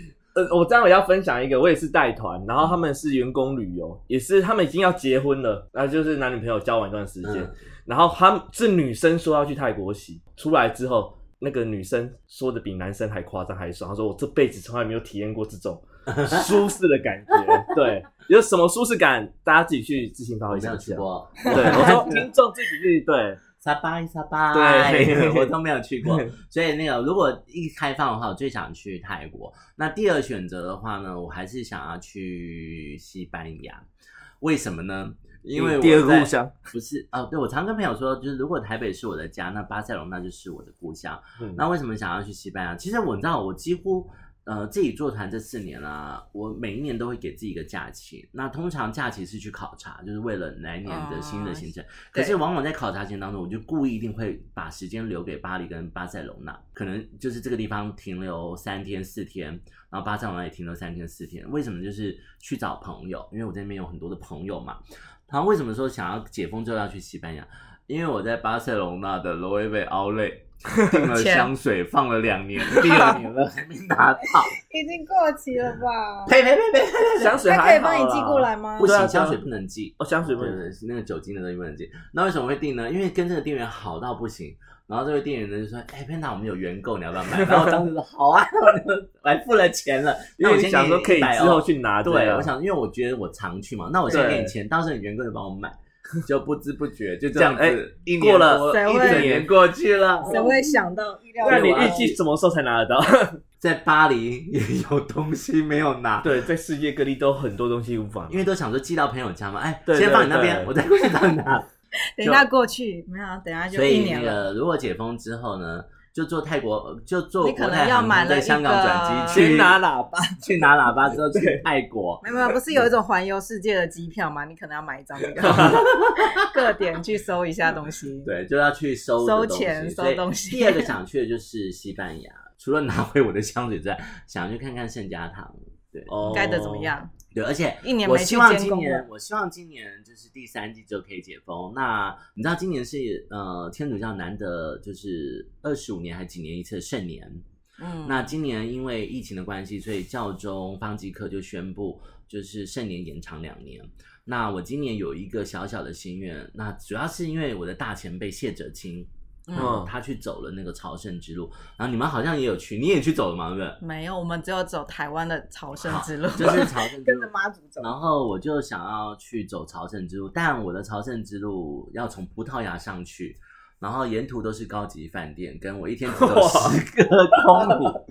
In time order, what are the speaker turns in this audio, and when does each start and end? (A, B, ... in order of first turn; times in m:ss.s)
0:00.3-0:23.4 A
0:07.2-0:07.6 B
0:16.1-0:16.7 B
0:20.5-0:22.3 B
0:23.6-0:33.8 B
0:24.5-0:25.5 A
0:26.0-0:26.4 A
0:34.4-1:14.6 B
0:35.5-0:36.7 A
0:50.9-0:52.4 C
1:10.9-1:11.5 C
1:14.5-1:16.3 C
1:16.3-1:17.4 B
1:17.2-1:19.4 A
1:17.4-1:19.0 C
1:18.8-1:40.5 B
1:20.0-1:20.6 A
1:30.4-1:32.5 A
1:34.1-1:34.4 C
1:34.1-1:34.5 A
1:37.3-1:39.5 A
1:38.7-1:39.4 C
1:40.2-1:40.8 A
1:40.2-1:42.1 C
1:41.4-1:43.4 A
1:41.4-1:42.2 B
1:43.6-1:46.4 B
1:46.2-1:48.4 A
1:48.3-1:51.7 B
1:49.9-1:50.8 A
1:52.2-1:54.5 C
1:52.2-1:52.5 B
1:53.7-1:59.8 B
1:57.4-1:59.5 C
1:59.3-2:00.4 A
2:00.4-2:02.3 B
2:01.1-2:01.6 A
2:02.2-2:08.3 C
2:05.4-2:05.8 A
2:05.4-2:06.7 B
2:08.2-2:16.6 B
2:09.2-2:10.9 C
2:16.1-2:17.0 A
2:16.3-2:17.1 C
2:17.3-2:27.4 B
2:17.8-2:19.1 C
2:27.8-2:28.4 C
2:28.0-2:43.8 B
2:39.5-2:39.8 C
2:39.6-2:39.9 A
2:43.8-2:47.9 C
2:45.8-2:58.0 B
2:56.1-2:56.8 A
2:57.4-2:57.8 A